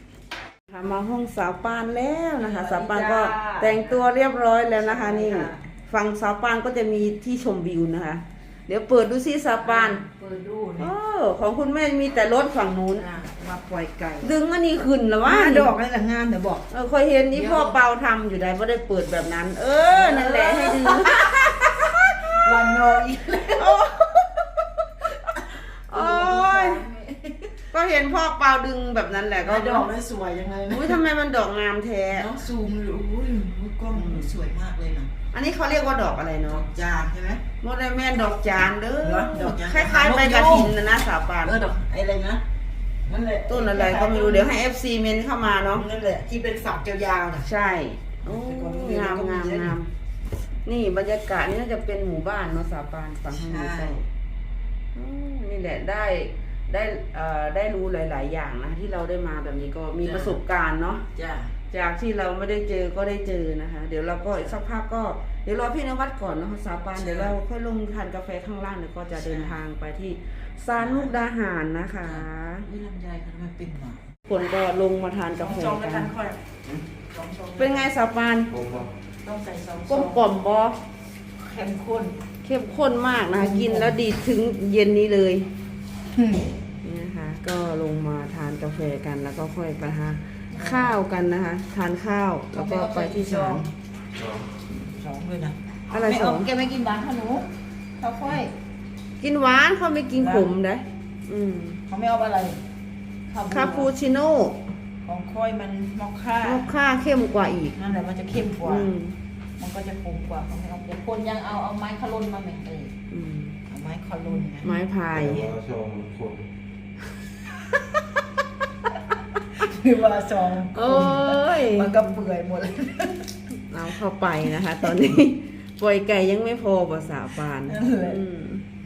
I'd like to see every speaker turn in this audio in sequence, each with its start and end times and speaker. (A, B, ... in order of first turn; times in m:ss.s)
0:00.7-0:10.0 A
0:02.4-0:04.0 B
0:04.8-0:05.6 B
0:09.6-0:10.9 B
0:10.8-0:13.0 A
0:13.0-0:14.3 B
0:14.2-0:15.8 A
0:15.2-0:16.7 B
0:16.7-0:22.0 A
0:17.3-0:17.8 B
0:19.9-0:23.8 B
0:23.6-0:24.2 A
0:25.2-0:27.5 B
0:25.9-0:26.8 A
0:27.7-0:29.9 A
0:29.4-0:31.0 B
0:30.7-0:32.3 A
0:32.1-0:35.1 B
0:33.9-0:34.3 A
0:35.3-0:36.6 A
0:36.4-0:37.4 B
0:37.6-0:41.6 A
0:39.0-0:40.8 B
0:41.4-0:42.4 B
0:43.0-0:44.5 B
0:43.5-0:45.8 A
0:45.7-0:47.5 B
0:47.4-0:49.9 A
0:48.2-0:49.8 B
0:50.6-0:54.0 A
0:53.3-0:54.0 B
0:54.9-1:01.0 A
1:00.0-1:00.4 B
1:01.1-1:01.5 B
1:01.7-1:12.7 A
1:07.0-1:07.4 B
1:09.2-1:09.6 B
1:10.8-1:11.1 B
1:12.0-1:14.1 B
1:14.2-1:16.1 A
1:15.4-1:16.4 B
1:17.0-1:17.9 B
1:17.6-1:18.5 A
1:18.5-1:18.9 C
1:19.2-1:20.2 B
1:19.9-1:20.8 A
1:21.4-1:22.2 B
1:22.4-1:25.5 A
1:23.3-1:24.0 B
1:26.1-1:26.5 B
1:26.8-1:33.7 A
1:30.5-1:30.9 B
1:32.5-1:33.7 B
1:34.1-1:34.4 C
1:34.7-1:38.5 B
1:35.9-1:36.5 A
1:39.2-1:41.8 A
1:40.2-1:40.5 B
1:41.9-1:42.6 B
1:43.3-1:43.9 B
1:43.5-1:44.6 A
1:45.0-1:46.8 B
1:46.4-1:47.8 A
1:47.8-1:48.9 B
1:48.6-1:49.2 A
1:49.6-1:52.9 B
1:53.1-1:53.6 A
1:53.7-1:54.7 B
1:54.4-1:55.5 A
1:55.1-1:56.5 C
1:59.5-2:03.3 B
2:00.7-2:02.1 A
2:03.7-2:08.6 A
2:07.6-2:08.2 B